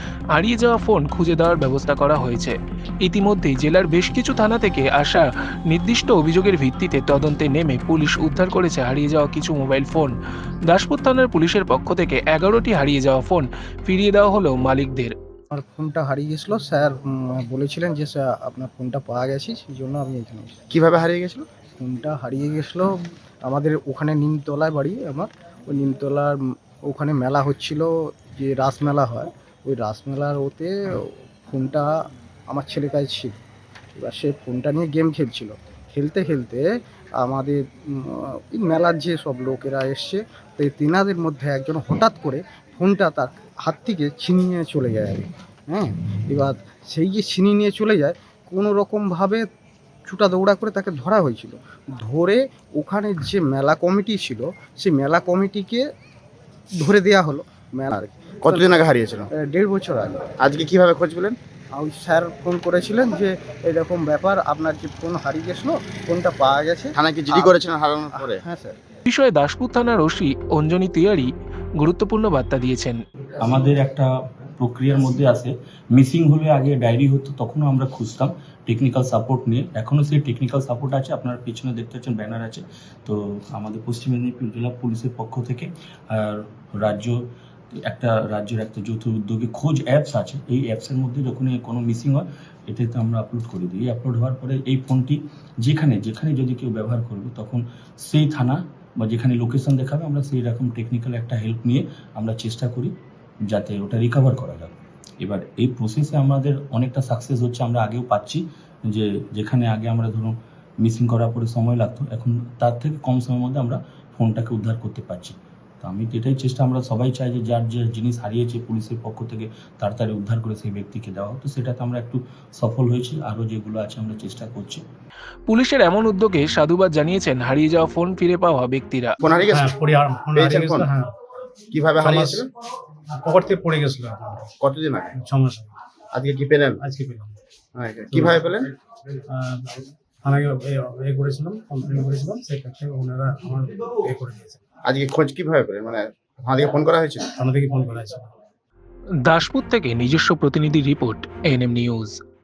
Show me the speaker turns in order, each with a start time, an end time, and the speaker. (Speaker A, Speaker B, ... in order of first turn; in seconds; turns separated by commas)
Speaker A: 0.3-10.1, Speaker A: 10.7-15.1, Speaker B: 15.5-20.7, Speaker C: 20.7-21.4, Speaker B: 21.8-22.9, Speaker B: 23.4-31.9, Speaker B: 32.5-33.4, Speaker B: 34.0-49.4, Speaker B: 50.1-55.8, Speaker B: 56.8-60.4, Speaker C: 58.4-59.3, Speaker C: 60.4-61.4, Speaker B: 61.8-68.8, Speaker C: 66.9-68.4, Speaker A: 69.1-73.0, Speaker D: 73.4-87.2, Speaker D: 87.8-102.9, Speaker D: 103.5-124.8, Speaker A: 125.5-129.2, Speaker C: 129.2-129.7, Speaker E: 129.5-131.1, Speaker C: 130.3-130.9, Speaker C: 131.7-132.5, Speaker E: 132.0-132.4, Speaker E: 133.2-134.5, Speaker C: 134.6-135.1, Speaker E: 135.2-135.8, Speaker C: 136.1-136.8, Speaker E: 136.8-137.4, Speaker C: 137.8-138.7, Speaker E: 138.1-138.5, Speaker E: 139.3-144.6, Speaker C: 144.8-147.2, Speaker E: 147.3-148.3, Speaker A: 149.2-152.2